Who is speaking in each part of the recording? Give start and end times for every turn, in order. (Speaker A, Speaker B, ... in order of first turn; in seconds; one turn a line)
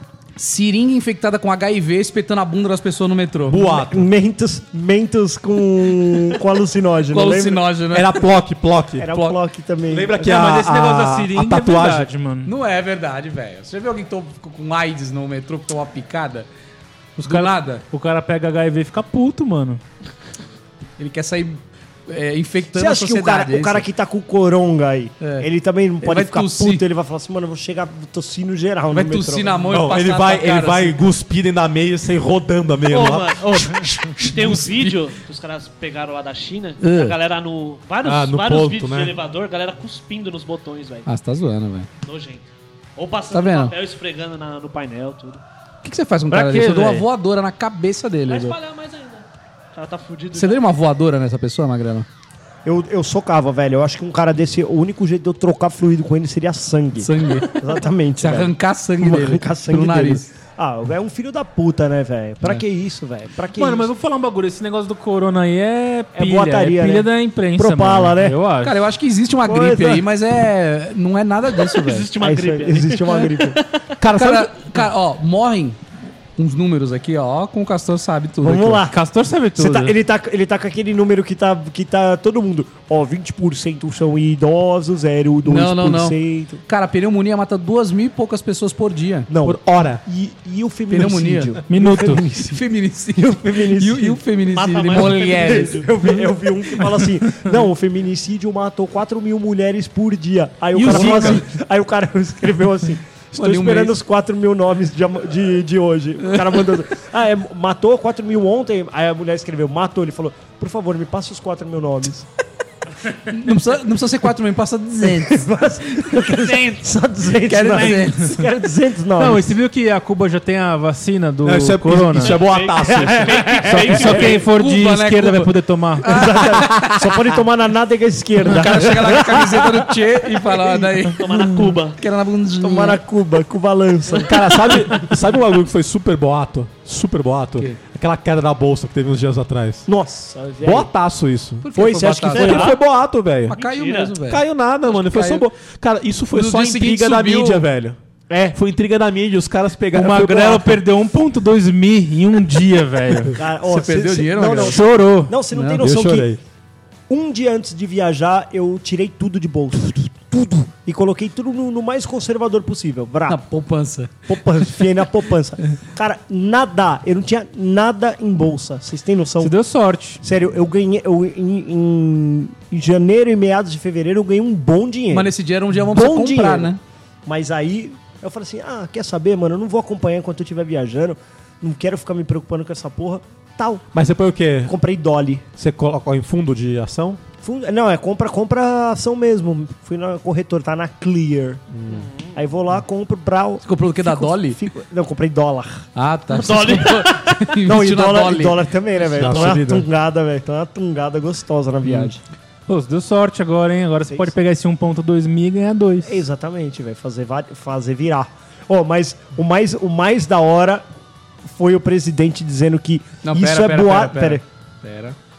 Speaker A: 0.4-3.6
Speaker B: 3.5-4.1
Speaker C: 3.6-7.6
Speaker A: 7.1-8.2
Speaker B: 7.9-9.1
Speaker C: 9.0-10.4
Speaker B: 9.9-12.1
Speaker D: 10.2-12.5
Speaker A: 12.4-16.5
Speaker D: 17.2-19.8
Speaker A: 17.2-17.8
Speaker A: 21.0-23.9
Speaker C: 22.7-29.6
Speaker A: 25.2-25.5
Speaker A: 26.0-26.8
Speaker A: 28.9-31.0
Speaker B: 29.7-34.8
Speaker E: 32.9-41.1
Speaker A: 36.8-37.1
Speaker B: 38.0-39.1
Speaker A: 41.0-41.9
Speaker E: 42.0-45.4
Speaker A: 43.3-43.7
Speaker A: 45.8-48.5
Speaker D: 46.3-47.0
Speaker E: 48.3-50.6
Speaker A: 50.3-52.1
Speaker C: 52.6-63.9
Speaker A: 57.0-57.6
Speaker A: 58.2-60.2
Speaker D: 63.5-68.8
Speaker C: 66.1-68.4
Speaker A: 68.6-72.1
Speaker C: 69.4-70.0
Speaker E: 71.6-73.9
Speaker C: 72.2-73.6
Speaker B: 74.0-74.7
Speaker A: 74.1-75.8
Speaker A: 76.4-78.8
Speaker C: 78.4-79.0
Speaker D: 78.9-79.9
Speaker C: 79.6-86.6
Speaker A: 85.5-89.3
Speaker C: 89.3-92.6
Speaker B: 89.4-90.0
Speaker A: 90.9-91.6
Speaker D: 91.7-92.2
Speaker A: 92.4-95.9
Speaker C: 93.1-94.2
Speaker E: 94.5-95.9
Speaker C: 94.9-112.3
Speaker D: 100.8-101.4
Speaker B: 100.8-101.4
Speaker A: 100.9-101.4
Speaker A: 103.3-104.0
Speaker A: 113.2-116.1
Speaker C: 115.0-119.5
Speaker E: 116.3-116.8
Speaker A: 117.4-118.4
Speaker D: 119.2-122.4
Speaker B: 121.4-124.0
Speaker E: 122.2-124.4
Speaker C: 122.8-124.3
Speaker D: 123.6-126.1
Speaker A: 124.2-127.3
Speaker C: 126.1-129.9
Speaker A: 128.4-133.0
Speaker E: 131.2-132.0
Speaker C: 132.6-135.0
Speaker B: 134.2-139.9
Speaker C: 139.9-140.9
Speaker B: 140.6-141.7
Speaker A: 141.6-142.7
Speaker C: 141.7-142.8
Speaker B: 142.2-143.6
Speaker A: 143.5-145.4
Speaker E: 143.5-144.2
Speaker B: 144.2-148.0
Speaker A: 146.3-147.7
Speaker C: 148.3-148.6
Speaker B: 148.5-150.8
Speaker D: 149.9-153.4
Speaker C: 153.4-156.3
Speaker A: 153.6-154.8
Speaker D: 154.6-155.3
Speaker A: 155.5-155.8
Speaker B: 155.8-156.4
Speaker C: 157.1-163.4
Speaker A: 163.3-164.2
Speaker C: 164.3-169.6
Speaker D: 169.4-170.2
Speaker C: 170.2-176.7
Speaker A: 175.1-176.8
Speaker C: 177.2-183.8
Speaker B: 183.9-184.7
Speaker C: 184.7-185.4
Speaker B: 185.6-187.2
Speaker C: 187.4-191.6
Speaker B: 191.7-192.1
Speaker E: 191.9-192.4
Speaker C: 192.3-195.9
Speaker A: 193.6-194.6
Speaker A: 195.9-199.5
Speaker E: 196.3-197.4
Speaker C: 197.6-202.2
Speaker B: 199.1-199.9
Speaker D: 202.7-206.2
Speaker C: 204.1-204.3
Speaker C: 206.1-210.8
Speaker C: 211.4-214.4
Speaker A: 213.2-215.2